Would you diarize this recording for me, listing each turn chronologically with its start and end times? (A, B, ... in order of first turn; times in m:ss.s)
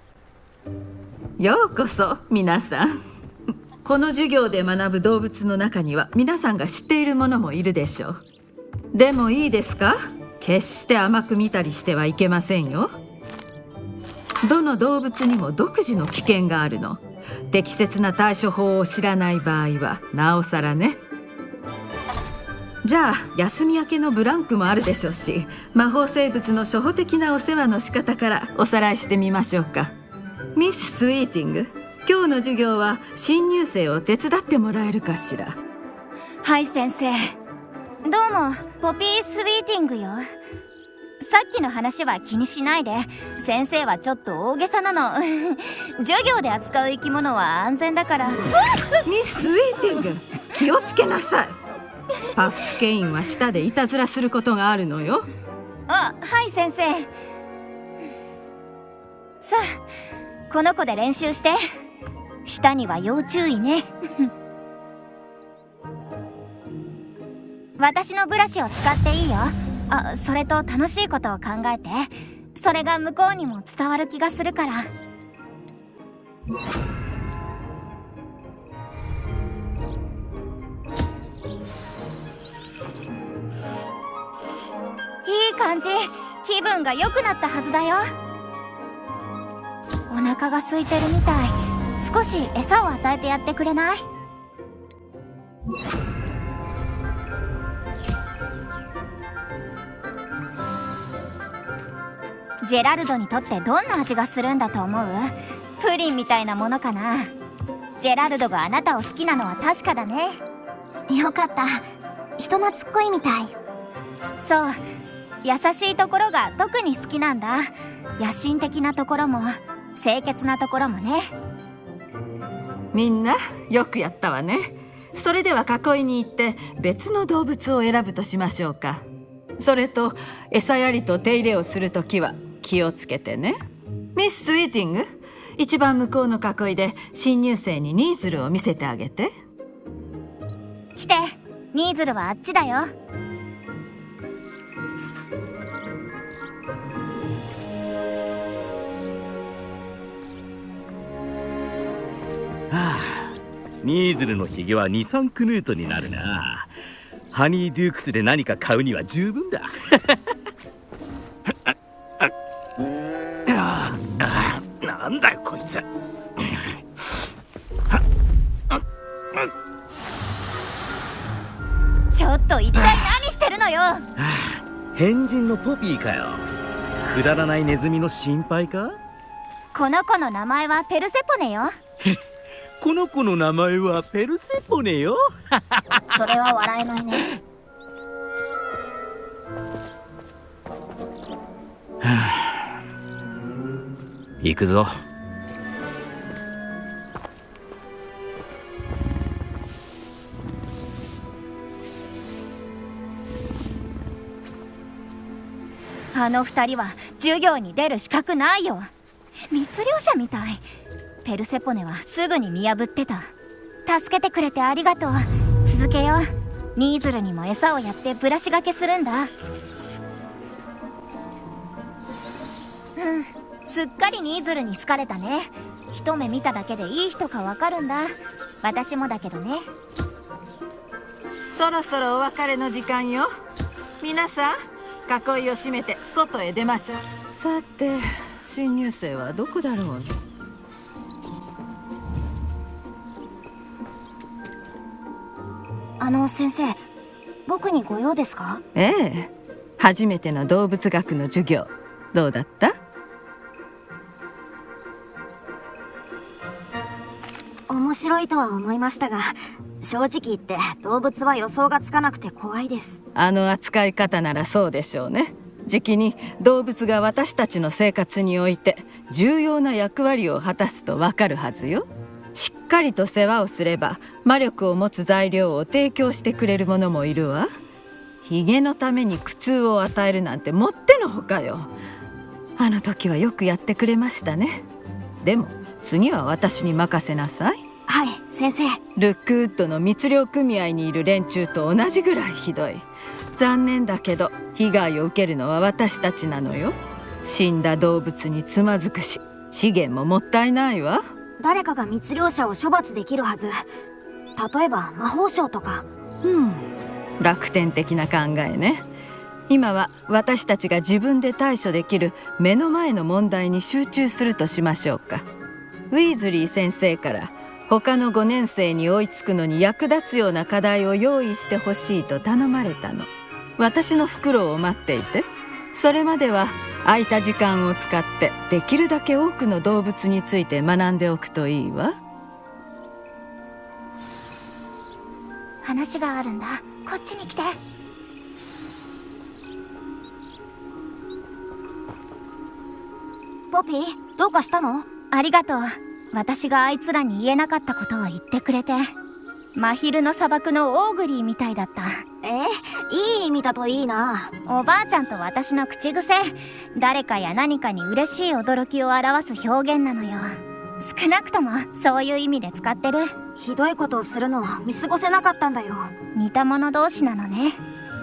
0:01.4-0:03.0 A
0:03.8-0:08.2 A
0:08.9-0:12.9 A
0:14.4-0:21.0 A
0:22.8-0:29.9 A
0:30.6-0:35.5 A
0:36.4-0:37.4 B
0:38.0-0:40.2 B
0:41.2-0:48.5 B
0:49.0-0:51.6 A
0:52.3-0:55.2 A
0:55.9-0:57.1 B
0:59.4-0:59.7 B
1:00.5-1:01.6 B
1:02.4-1:04.3 B
1:07.8-1:14.9 B
1:25.2-1:28.0 B
1:30.1-1:34.0 B
1:42.6-1:47.3 B
1:48.0-1:50.4 B
1:51.1-1:51.9 C
1:52.4-1:53.5 C
1:54.4-1:54.8 B
1:55.4-2:01.3 B
2:02.9-2:09.0 A
2:09.6-2:13.6 A
2:14.2-2:19.3 A
2:21.0-2:22.9 B
2:32.7-2:36.7 D
2:37.3-2:40.3 D
2:41.5-2:42.3 D
2:43.5-2:45.8 D
2:46.4-2:46.8 D
2:52.1-2:54.0 B
2:54.2-2:56.4 D
2:57.0-2:59.0 D
2:59.7-3:01.7 B
3:02.8-3:05.2 D
3:06.1-3:07.3 B
3:12.0-3:12.7 D
3:14.4-3:14.9 D
3:26.1-3:28.9 B
3:29.5-3:30.6 B
3:31.2-3:33.3 B
3:33.8-3:39.3 B
3:43.0-3:49.6 B
3:51.5-3:53.3 A
3:54.0-3:54.5 A
3:55.1-4:00.1 A
4:06.0-4:06.8 C
4:07.5-4:08.6 C
4:08.7-4:12.7 A
4:17.7-4:23.0 C
4:23.1-4:37.5 A
4:38.2-4:41.7 A
4:42.6-4:44.6 A
4:45.2-4:47.6 A
4:47.9-4:48.8 C
4:49.0-4:52.8 A
4:53.3-5:01.0 A
5:01.4-5:03.6 C
5:04.4-5:05.8 C
5:06.2-5:06.6 A
5:07.2-5:08.8 A
5:09.5-5:15.2 A
5:15.9-5:31.9 A
5:35.6-5:37.6 B
5:43.5-5:44.9 C
5:45.1-5:48.9 B
5:49.5-5:52.0 B
5:52.2-5:54.3 C
5:54.5-6:03.1 B
6:03.4-6:05.9 C
6:06.1-6:07.6 B